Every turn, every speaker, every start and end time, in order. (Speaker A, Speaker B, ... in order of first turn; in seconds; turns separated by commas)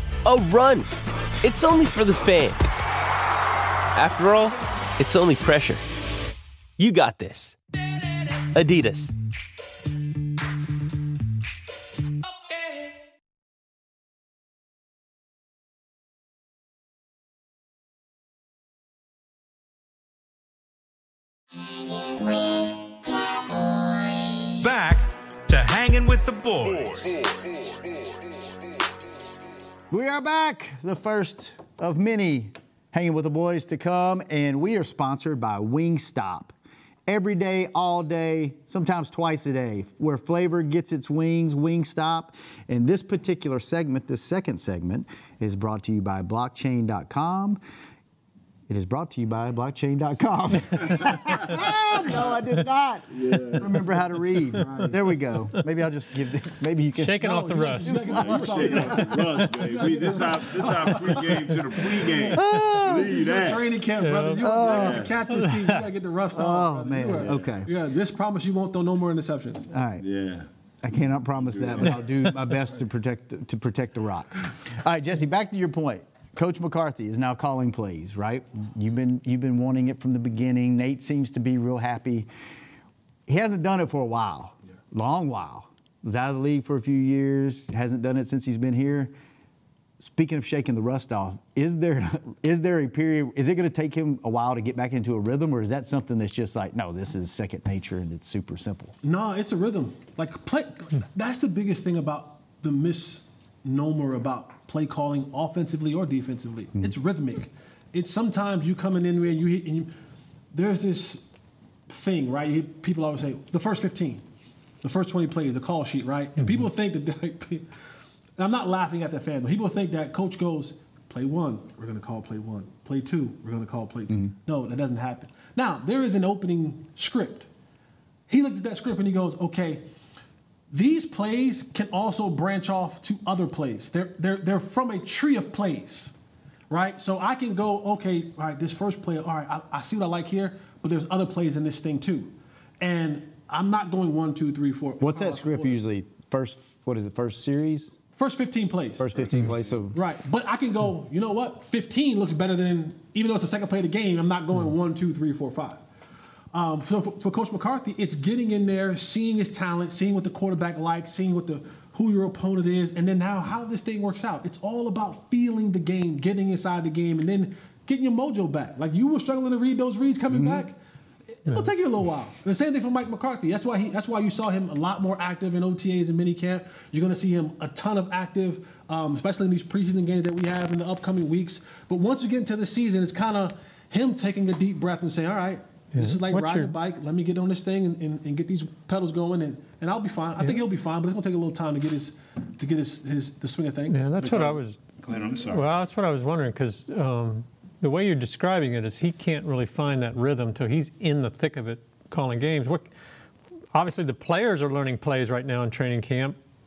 Speaker A: 0.2-0.9, Speaker A: 1.4-2.8, Speaker A: 3.9-5.8, Speaker A: 6.8-7.6, Speaker A: 8.4-9.1, Speaker B: 24.6-27.4, Speaker C: 29.9-36.5, Speaker C: 37.1-47.6, Speaker C: 48.7-57.3, Speaker D: 51.1-51.5, Speaker D: 52.0-52.3, Speaker D: 53.1-53.9, Speaker E: 54.5-55.1, Speaker F: 57.0-58.4, Speaker E: 57.2-69.7, Speaker C: 57.8-59.3, Speaker D: 58.1-63.7, Speaker C: 60.6-61.0, Speaker C: 62.3-63.1, Speaker F: 64.0-64.5, Speaker C: 64.4-65.1, Speaker D: 64.6-65.1, Speaker F: 65.3-65.8, Speaker C: 66.3-67.7, Speaker D: 67.1-67.5, Speaker C: 69.7-70.0, Speaker D: 70.0-70.5, Speaker C: 70.8-82.3, Speaker D: 71.3-72.2, Speaker C: 83.3-89.1, Speaker C: 90.0-98.9, Speaker E: 99.0-109.9, Speaker E: 110.5-111.3, Speaker E: 111.9-114.2, Speaker E: 114.8-117.7, Speaker E: 118.4-127.5, Speaker E: 128.3-129.8, Speaker E: 130.7-136.1, Speaker E: 136.7-145.8, Speaker C: 145.0-147.9, Speaker E: 148.2-149.1, Speaker C: 149.0-150.0, Speaker D: 149.2-149.8, Speaker E: 149.9-155.8, Speaker E: 156.5-170.8, Speaker C: 170.3-170.7, Speaker E: 171.4-194.0, Speaker F: 185.9-186.8, Speaker F: 193.9-194.8, Speaker D: 194.2-195.7, Speaker F: 195.5-202.9, Speaker F: 203.7-206.4